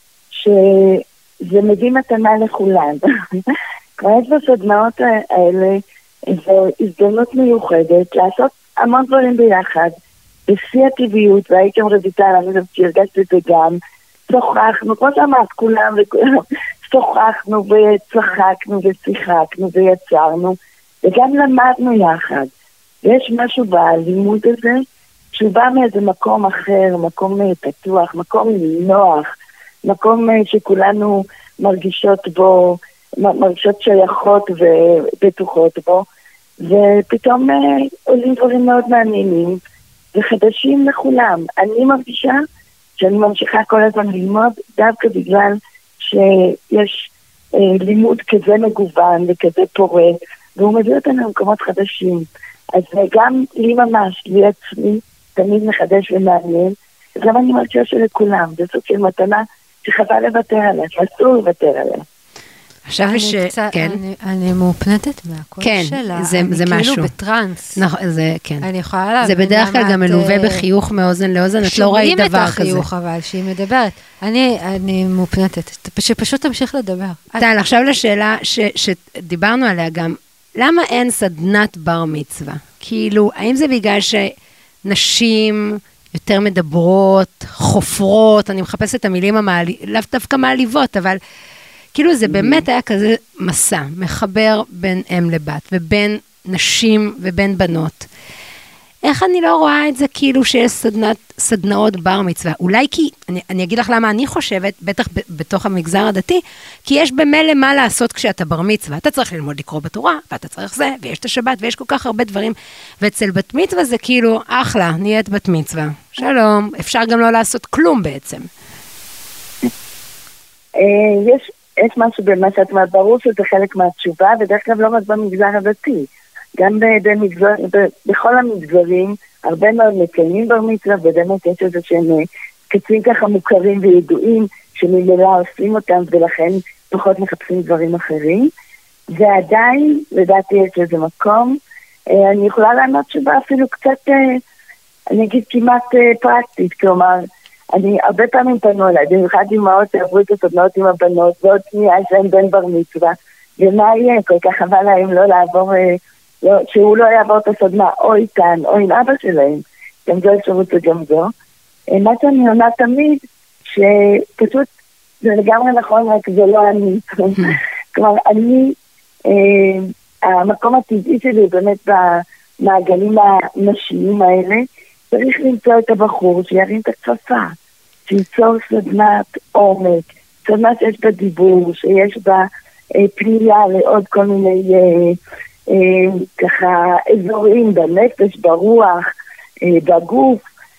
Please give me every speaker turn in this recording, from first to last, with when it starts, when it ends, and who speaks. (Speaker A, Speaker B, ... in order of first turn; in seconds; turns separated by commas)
Speaker A: 0.3-3.4, Speaker A: 4.0-9.9, Speaker A: 10.5-22.5, Speaker A: 23.0-24.8, Speaker A: 25.3-29.3, Speaker A: 29.8-36.0, Speaker A: 36.6-39.6, Speaker A: 40.1-42.4, Speaker A: 43.0-62.0, Speaker B: 62.9-64.0, Speaker C: 63.1-67.8, Speaker B: 65.6-67.1, Speaker B: 67.8-68.7, Speaker C: 68.6-70.6, Speaker B: 69.2-72.8, Speaker C: 71.6-77.5, Speaker B: 77.4-84.3, Speaker B: 84.8-91.2, Speaker B: 91.9-98.1, Speaker A: 92.2-92.6, Speaker B: 99.0-118.5, Speaker A: 120.8-138.5, Speaker A: 139.1-141.6, Speaker A: 142.1-144.4, Speaker A: 145.1-161.3, Speaker A: 161.9-163.2, Speaker A: 163.7-164.7, Speaker A: 165.2-177.5, Speaker A: 178.1-185.2, Speaker A: 185.7-189.0, Speaker A: 189.6-190.4